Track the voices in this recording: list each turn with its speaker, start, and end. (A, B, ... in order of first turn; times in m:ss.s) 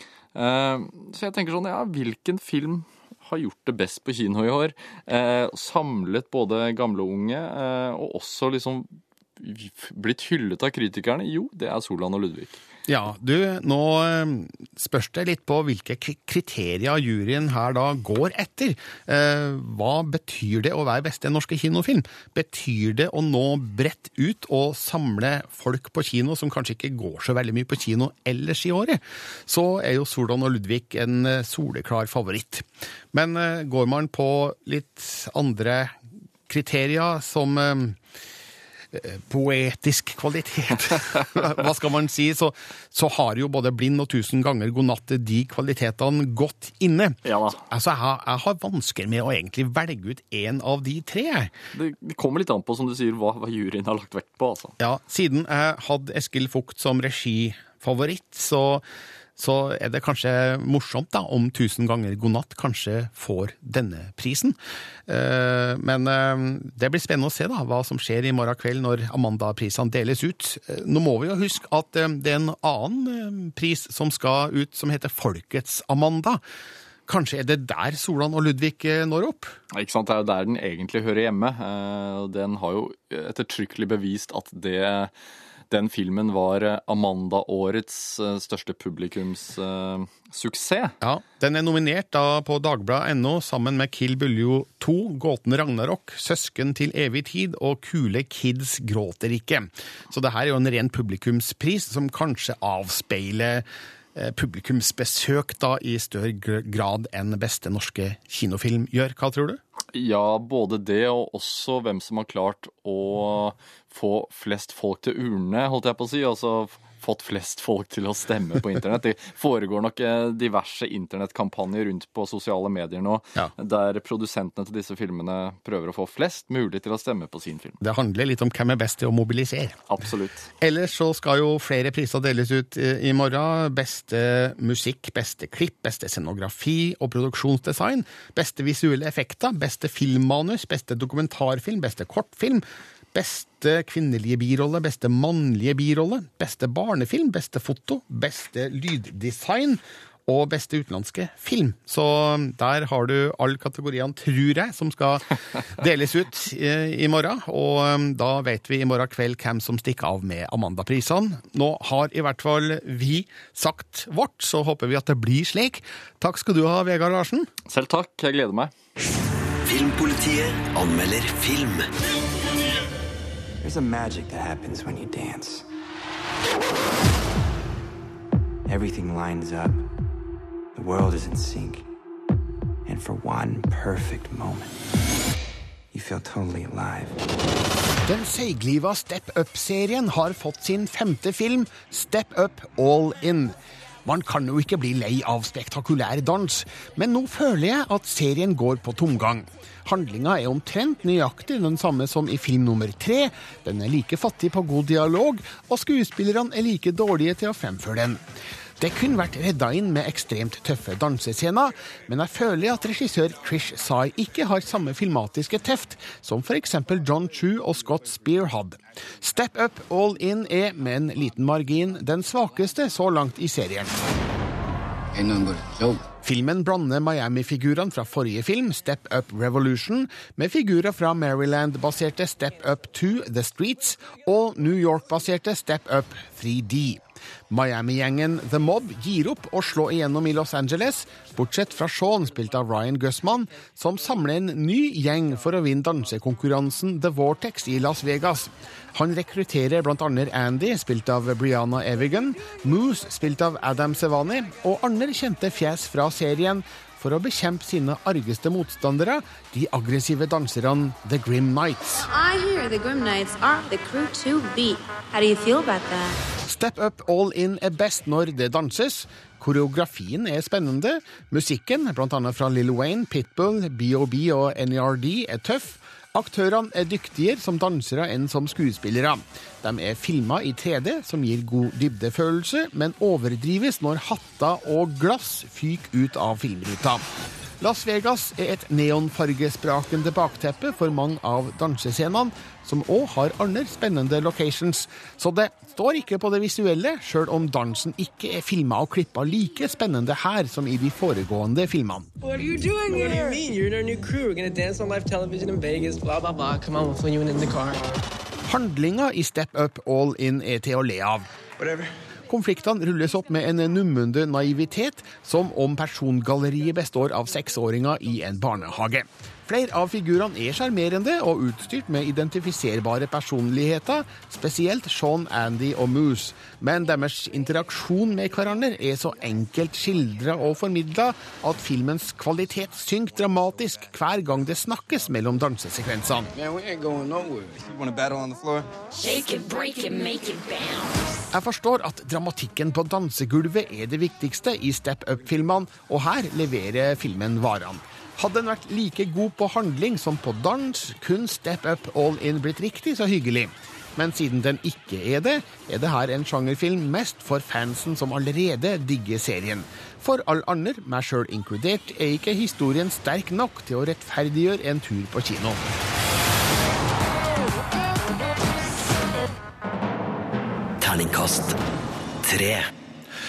0:00.3-0:12.6 A
0:12.8-0:35.9 B
0:36.5-0:38.0 B
0:38.9-0:51.5 B
0:47.2-0:47.6 A
0:51.7-0:54.7 A
0:54.8-0:58.8 B
0:59.4-1:04.6 B
1:05.1-1:16.4 B
1:17.1-1:19.5 B
1:19.7-1:25.1 A
1:25.7-1:31.0 A
1:31.0-1:49.6 B
1:49.9-2:07.8 A
2:07.8-2:09.8 B
2:09.9-2:10.5 A
2:10.6-2:47.5 B
2:47.7-2:48.7 A
2:49.6-2:51.9 C
2:53.6-2:55.6 D
2:58.6-2:59.9 D
3:00.7-3:01.9 D
3:02.8-3:04.8 D
3:05.9-3:07.2 D
3:08.0-3:28.2 B
3:28.8-3:43.9 B
3:46.2-4:22.1 B
4:22.0-4:26.2 E
4:26.4-4:47.0 B
4:47.6-5:02.1 B
5:02.2-5:07.9 F
5:08.4-5:11.3 B
5:12.3-5:36.3 B
5:39.0-5:40.9 E
5:41.3-6:05.6 B
6:10.8-6:11.6 C
6:12.2-6:12.7 C